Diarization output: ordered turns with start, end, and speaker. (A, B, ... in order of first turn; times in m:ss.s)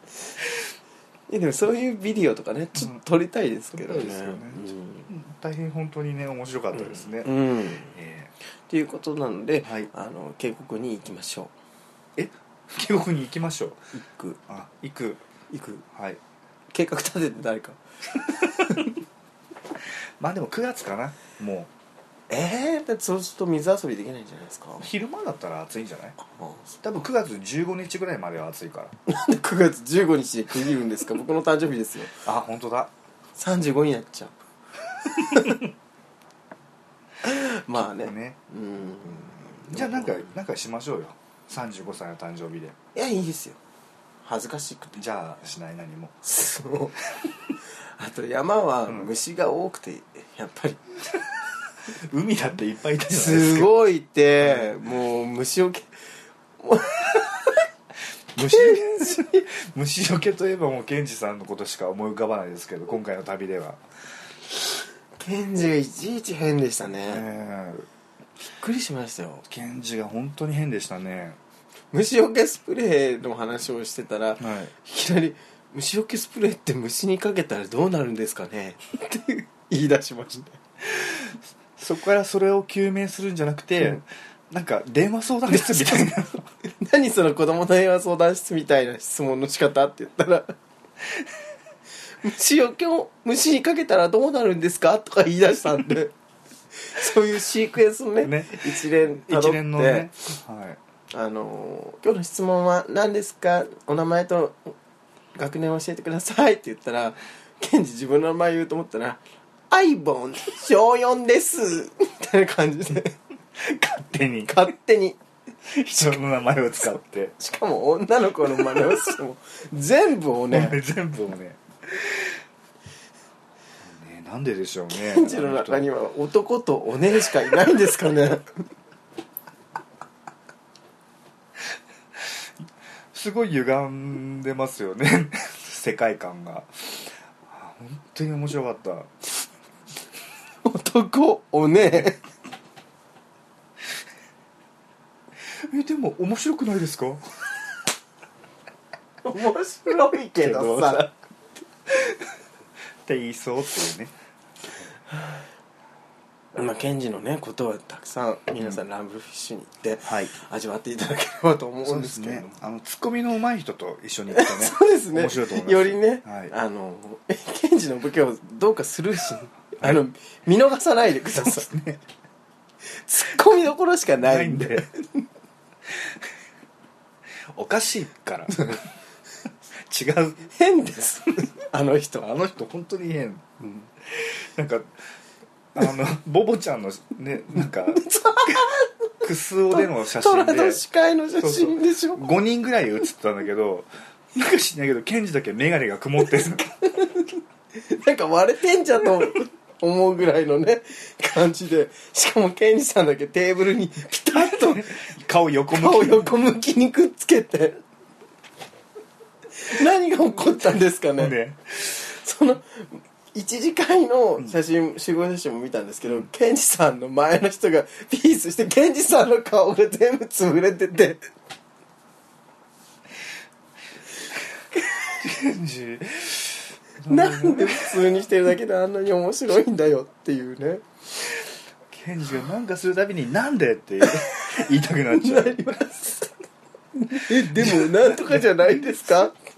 0:01.3-0:05.1 A
0:03.8-0:07.3 B
0:06.8-0:08.0 A
0:07.9-0:08.3 B
0:08.7-0:11.5 A
0:09.6-0:09.9 B
0:12.2-0:13.9 B
0:13.9-0:14.4 A
0:14.5-0:15.2 B
0:15.5-0:15.8 A
0:15.9-0:16.2 B
0:16.7-0:18.9 A
0:18.4-0:18.9 B
0:20.2-0:21.7 B
0:22.3-0:24.9 A
0:24.8-0:26.2 B
0:26.2-0:26.7 A
0:26.8-0:29.0 B
0:29.1-0:32.2 A
0:32.2-0:32.9 B
0:33.4-0:34.4 A
0:35.1-0:35.6 A
0:37.2-0:40.3 A
0:37.8-0:38.4 B
0:39.4-0:42.8 B
0:43.0-0:43.6 A
0:44.2-0:45.0 A
0:45.0-0:46.2 B
0:46.2-0:47.2 A
0:47.8-0:50.8 A
0:51.8-0:53.7 B
0:53.1-0:55.9 A
0:54.4-0:54.8 B
0:56.6-0:57.7 A
0:58.4-1:03.8 B
0:58.5-0:59.2 A
1:05.2-1:07.3 A
1:07.1-1:07.9 B
1:08.6-1:09.4 A
1:09.5-1:11.4 B
1:11.9-1:20.6 A
1:14.4-1:14.7 B
1:20.8-1:26.5 B
1:25.8-1:26.1 A
1:26.6-1:30.5 A
1:32.2-1:36.1 A
1:36.7-1:40.1 A
1:38.2-1:40.8 B
1:41.1-1:44.8 A
1:45.4-1:53.2 A
1:53.6-1:54.6 B
1:54.5-1:55.2 A
1:55.7-1:57.4 B
1:57.4-2:00.8 A
2:00.5-2:02.4 B
2:03.8-2:05.9 B
2:04.9-2:08.7 A
2:12.2-2:12.5 B
2:13.1-2:19.1 B
2:20.6-2:22.2 A
2:25.5-2:27.2 B
2:29.2-2:31.1 A
2:30.4-2:31.1 B
2:31.9-2:32.2 B
2:33.0-2:34.1 B
2:36.5-2:42.6 A
2:40.0-2:40.3 B
2:41.8-2:46.5 B
2:44.3-2:51.7 A
2:51.4-2:52.0 B
2:52.8-2:55.2 A
2:54.2-2:54.9 B
2:55.9-2:56.3 B
2:57.5-2:58.8 B
2:59.7-3:00.5 B
3:00.5-3:02.4 A
3:02.2-3:04.9 B
3:05.8-3:08.7 B
3:07.9-3:08.9 A
3:09.2-3:10.8 B
3:09.7-3:12.3 A
3:11.4-3:17.0 B
3:16.9-3:25.0 A
3:24.3-3:26.3 B
3:25.7-3:27.8 A
3:29.6-3:41.2 A
3:31.2-3:32.0 B
3:45.0-3:48.1 B
3:47.1-3:50.8 A
3:51.9-3:55.7 B
3:54.0-3:56.3 A
3:56.9-3:59.4 A
3:57.2-3:58.9 B